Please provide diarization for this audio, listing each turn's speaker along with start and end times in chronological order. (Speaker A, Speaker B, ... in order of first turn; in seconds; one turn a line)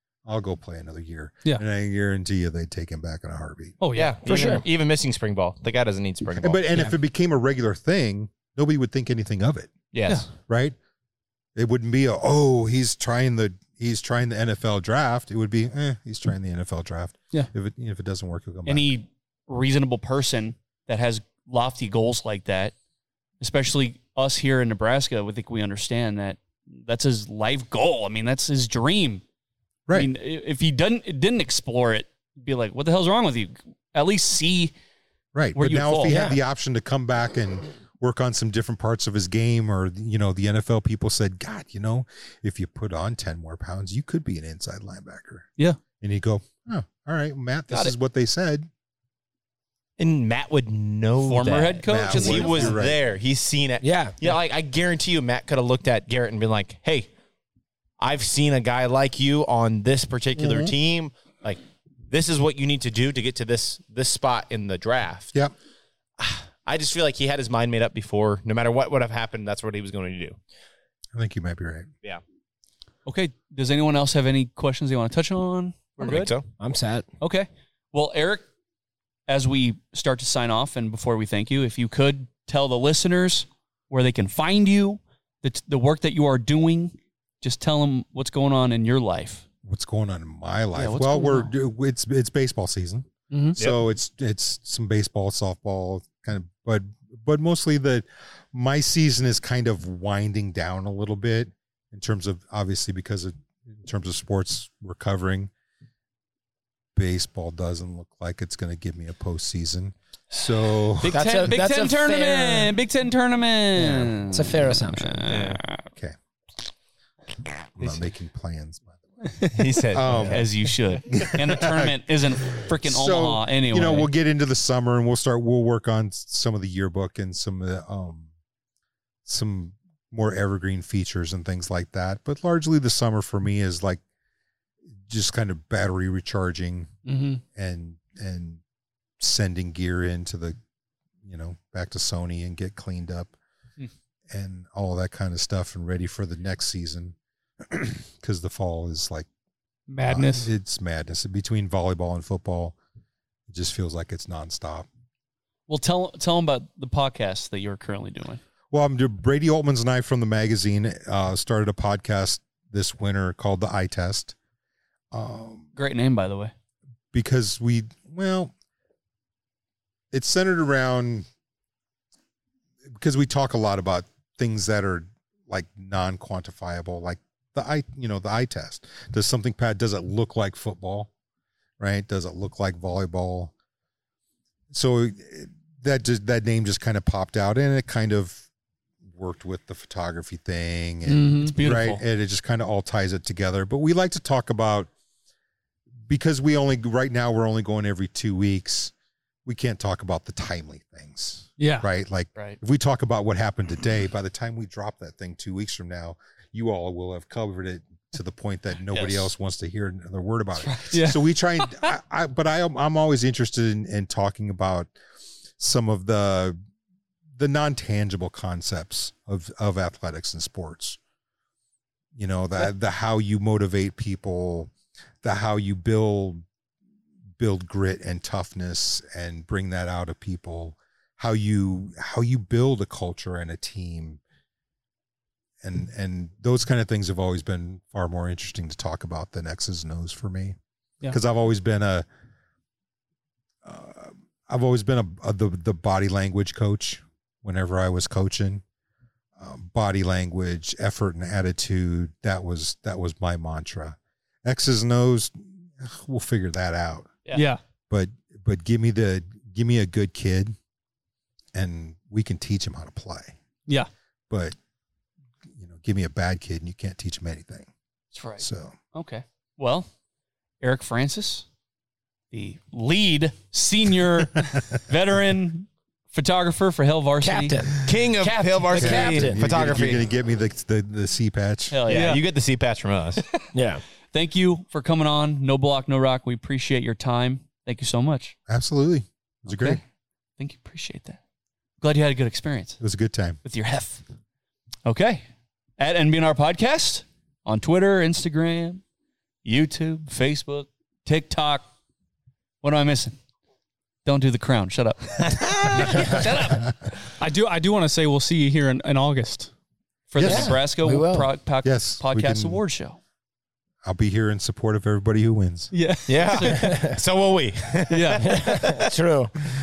Speaker A: 0.2-3.8
Speaker B: 3.8-4.6
Speaker C: 3.9-6.9
Speaker D: 4.2-4.6
Speaker A: 6.4-9.8
Speaker C: 9.9-10.3
Speaker A: 10.4-10.8
Speaker A: 11.6-18.9
Speaker E: 18.6-22.7
Speaker E: 23.4-29.2
Speaker E: 29.9-34.7
Speaker A: 35.3-45.5
Speaker E: 35.5-36.1
Speaker D: 36.1-36.4
Speaker A: 46.0-48.7
Speaker C: 50.0-57.1
Speaker E: 51.2-52.7
Speaker A: 51.9-53.0
Speaker D: 53.8-54.2
Speaker C: 58.0-65.3
Speaker A: 60.4-60.7
Speaker C: 66.2-70.4
Speaker A: 71.1-71.9
Speaker E: 73.0-76.3
Speaker C: 76.0-76.5
Speaker D: 76.6-77.0
Speaker E: 77.2-78.4
Speaker E: 79.3-89.4
Speaker A: 89.6-105.5
Speaker E: 90.7-91.5
Speaker B: 93.3-93.6
Speaker C: 93.6-93.8
Speaker A: 106.9-111.2
Speaker E: 111.0-115.8
Speaker D: 111.1-112.7
Speaker D: 113.7-115.2
Speaker C: 115.2-115.6
Speaker A: 117.8-119.4
Speaker C: 119.5-120.5
Speaker A: 119.9-120.5
Speaker E: 120.3-124.1
Speaker A: 121.1-128.3
Speaker A: 129.2-134.0
Speaker A: 135.1-136.9
Speaker B: 137.1-137.4
Speaker A: 137.5-138.6
Speaker A: 139.2-140.6
Speaker A: 141.2-143.3
Speaker A: 144.3-149.3
Speaker B: 149.9-150.5
Speaker A: 150.1-152.8
Speaker A: 153.5-154.9
Speaker E: 155.7-158.4
Speaker A: 158.7-164.3
Speaker A: 165.1-165.7
Speaker E: 165.8-166.5
Speaker A: 167.1-168.5
Speaker A: 170.1-171.2
Speaker A: 172.9-181.1
Speaker A: 181.8-183.5
Speaker A: 184.7-188.4
Speaker A: 189.1-194.9
Speaker B: 191.1-191.5
Speaker E: 191.4-192.0
Speaker A: 196.1-198.9
Speaker A: 199.4-214.9
Speaker B: 201.6-201.9
Speaker E: 208.9-209.3
Speaker E: 210.6-210.9
Speaker B: 210.9-211.2
Speaker A: 215.6-216.6
Speaker A: 217.4-221.0
Speaker A: 222.2-224.7
Speaker A: 225.2-226.4
Speaker A: 227.4-234.2
Speaker A: 235.6-240.6
Speaker A: 241.1-242.1
Speaker A: 243.6-248.6
Speaker A: 249.4-257.2
Speaker B: 257.3-257.6
Speaker A: 257.9-260.6
Speaker A: 261.5-263.3
Speaker A: 264.3-264.5
Speaker A: 265.5-267.7
Speaker E: 268.1-269.9
Speaker A: 268.4-268.8
Speaker E: 270.6-271.4
Speaker E: 272.3-277.6
Speaker D: 277.2-277.8
Speaker C: 277.8-280.0
Speaker E: 278.2-279.0
Speaker D: 278.7-279.4
Speaker A: 278.7-281.8
Speaker E: 281.7-282.2
Speaker C: 281.9-283.2
Speaker B: 281.9-282.2
Speaker D: 283.5-283.8
Speaker E: 284.1-288.3
Speaker A: 288.5-289.8
Speaker E: 290.4-291.2
Speaker E: 291.8-292.8
Speaker A: 292.8-293.4
Speaker E: 293.4-294.0
Speaker E: 294.8-295.2
Speaker E: 295.8-298.8
Speaker E: 299.4-301.6
Speaker E: 302.6-303.2
Speaker E: 304.1-306.7
Speaker B: 307.2-309.5
Speaker E: 310.1-313.0
Speaker A: 310.1-310.6
Speaker D: 310.2-311.3
Speaker A: 311.6-312.6
Speaker A: 313.8-315.7
Speaker B: 315.7-316.3
Speaker C: 316.1-318.9
Speaker E: 316.2-316.8
Speaker D: 316.5-317.0
Speaker B: 317.9-318.3
Speaker D: 318.2-319.3